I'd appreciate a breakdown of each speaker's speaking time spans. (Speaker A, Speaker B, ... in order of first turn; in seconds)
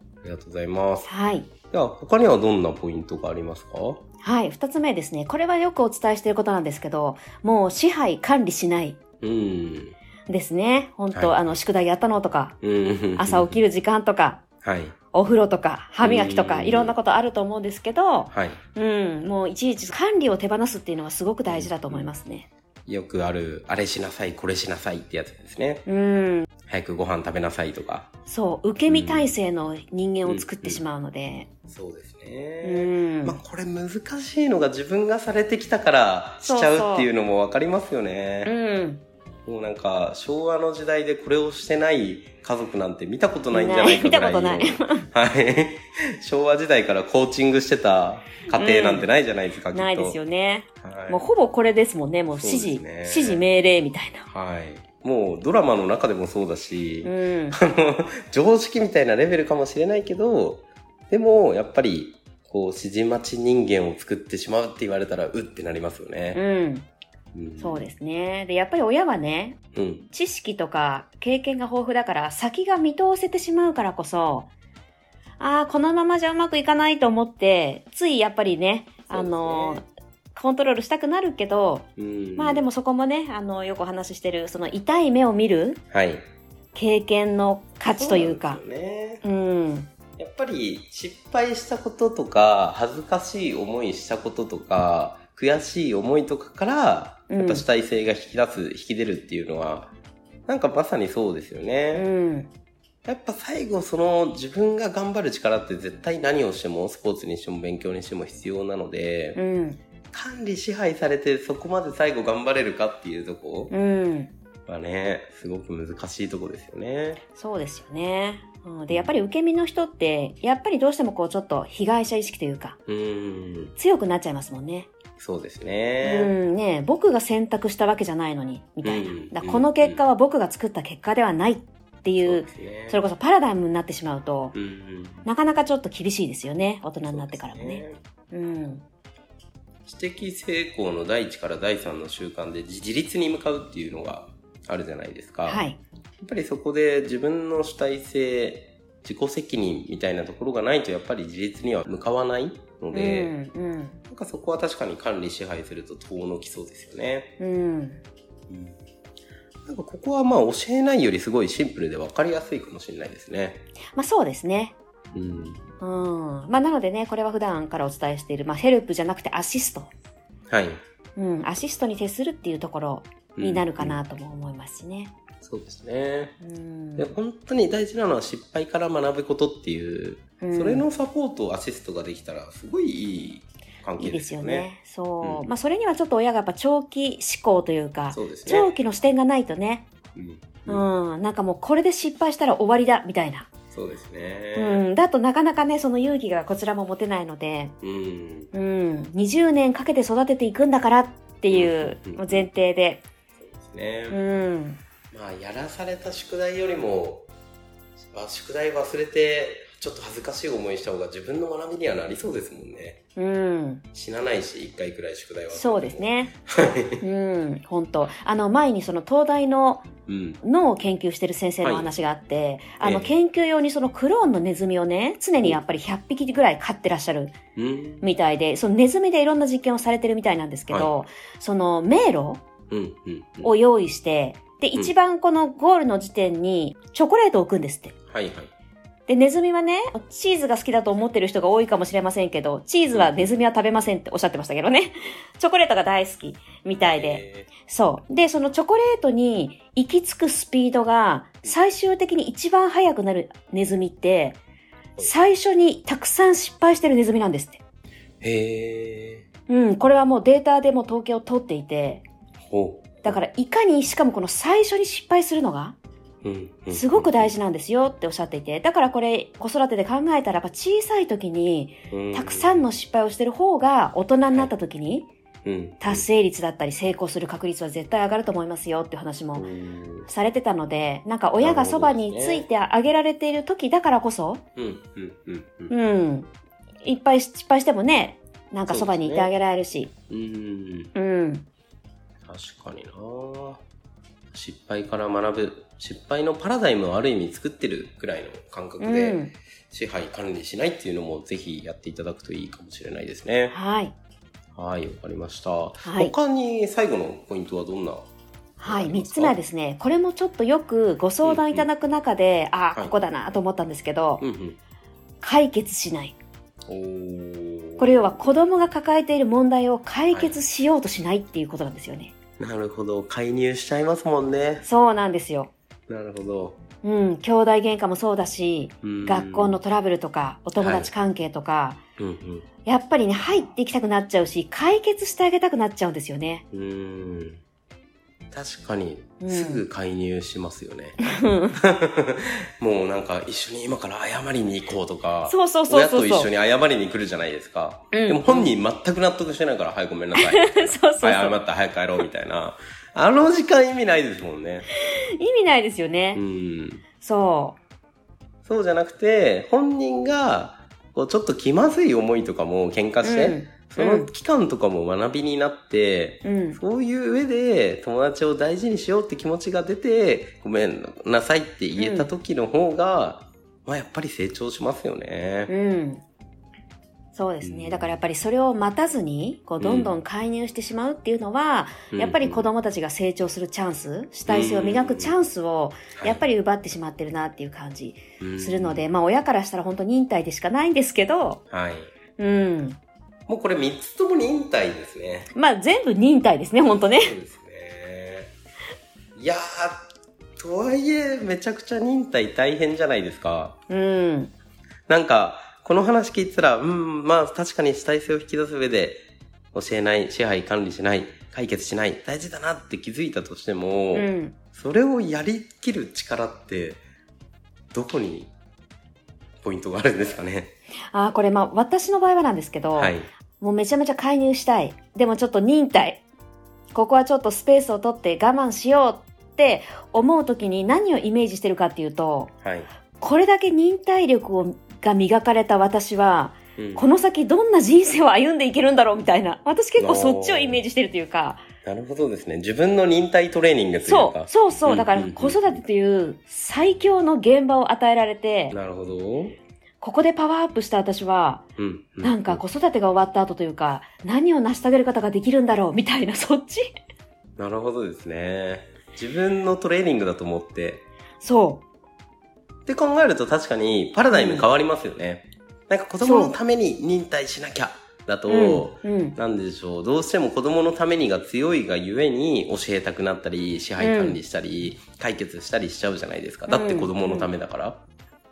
Speaker A: 0.2-1.1, 1.7-4.0, 9.2-9.9, 11.1-11.6, 12.6-13.6, 14.6-14.9, 16.0-16.9, 18.3-18.6, 21.5-22.1, 22.9-25.8, 26.7-28.1, 28.9-29.3, 30.2-30.8, 31.7-38.5, 39.5-50.2, 50.8-51.2, 52.3-53.4, 54.3-66.4, 67.3-67.8, 69.8-70.1, 79.1-79.8, 82.0-82.7, 85.9-86.2, 87.9-89.2, 90.2-99.9, 100.5-102.1, 103.0-109.4, 110.1-113.7, 114.7-117.2, 122.9-123.7, 125.2-126.3, 128.8-130.0, 132.2-133.0, 134.5-135.3, 137.0-138.0, 139.8-145.6, 146.2-153.3, 154.1-157.3, 158.5-158.8, 159.7-163.6, 165.1-165.6, 170.5-170.8, 173.3-174.0, 175.4-176.3, 177.0-184.7, 185.2-185.5, 188.1-188.7, 190.2-190.8, 193.7-194.8, 197.8-198.5, 201.5-202.5, 203.4-204.2, 205.1-207.3, 208.1-213.0, 213.9-217.0, 220.1-220.4, 221.6-221.9, 222.8-223.1, 227.6-228.1, 232.7-233.5, 238.1-238.5, 242.9-243.3, 246.8-247.5, 258.2-259.2, 262.5-263.2, 266.2-267.3, 271.9-272.7, 275.4-276.0, 279.4-280.1, 281.4-282.4, 284.6-285.7, 288.7-289.3, 290.1-290.9, 292.3-293.6, 294.3-303.6, 304.5-308.0, 308.6-309.3, 311.2-311.7, 314.2-314.6, 316.7-318.3, 320.1-320.4, 322.4-324.6, 325.9-326.6, 328.8-329.6, 330.6-330.9, 332.0-332.5, 336.5-337.4, 338.3-341.0, 341.6-354.7, 356.1-356.8, 358.4-375.5, 377.4-377.9, 379.6-379.9, 381.9-382.5, 384.3-385.2, 386.0-386.2, 388.2-388.8, 391.5-391.9, 393.3-395.3, 396.6-398.3, 399.1-403.6, 404.9-409.0, 409.5-416.8, 417.7-418.3, 419.4-420.5, 422.8-423.1, 432.4-432.7, 436.6-436.9, 439.8-440.6, 441.6-445.6, 448.5-449.4, 451.6-452.4, 457.4-460.8, 462.7-477.8
Speaker B: 1.0-1.5, 4.2-9.0, 10.3-12.5, 13.2-14.4, 15.1-22.5, 25.9-26.5, 28.3-31.5, 32.6-33.4, 36.4-37.1, 38.4-39.0, 43.5-45.1, 48.5-49.1, 49.7-54.3, 57.0-57.6, 66.3-66.9, 67.6-74.5, 75.4-85.8, 86.7-88.6, 89.2-89.9, 97.3-97.7, 101.9-102.5, 109.3-109.8, 113.7-114.3, 117.3-122.8, 123.8-124.9, 126.0-134.5, 135.2-138.8, 145.4-145.8, 152.9-154.0, 157.4-158.0, 163.9-164.7, 165.8-169.9, 171.2-175.1, 176.4-177.2, 180.4-180.9, 184.0-189.8, 190.7-193.5, 194.5-197.7, 198.5-203.0, 204.1-204.8, 213.2-213.8, 215.5-216.3, 217.0-219.8, 220.4-227.3, 228.0-232.4, 233.4-237.9, 239.1-254.4, 255.0-257.6, 259.5-262.0, 263.0-265.8, 266.7-275.1, 275.8-279.5, 280.1-284.4, 285.7-286.3, 286.8-289.9, 290.9-291.4, 298.8-299.3, 303.5-303.9, 305.8-306.1, 308.6-314.2, 315.2-316.1, 317.8-322.1, 324.6-325.5, 326.8-331.8, 332.6-336.4, 339.2-339.6, 341.0-341.6, 345.2-346.3, 347.9-348.6, 350.1-351.4, 355.2-356.2, 357.0-357.6, 363.0-364.1, 366.2-366.6, 371.8-372.1, 375.5-376.0, 377.1-391.4, 392.2-392.8, 395.3-397.2, 403.7-404.3, 413.9-414.4, 420.9-426.0, 426.7-432.3, 433.0-441.4, 443.9-448.6, 449.8-451.4, 452.0-456.7, 461.2-461.6, 464.1-464.5, 466.0-466.3, 468.3-469.1, 473.8-474.2, 476.5-477.3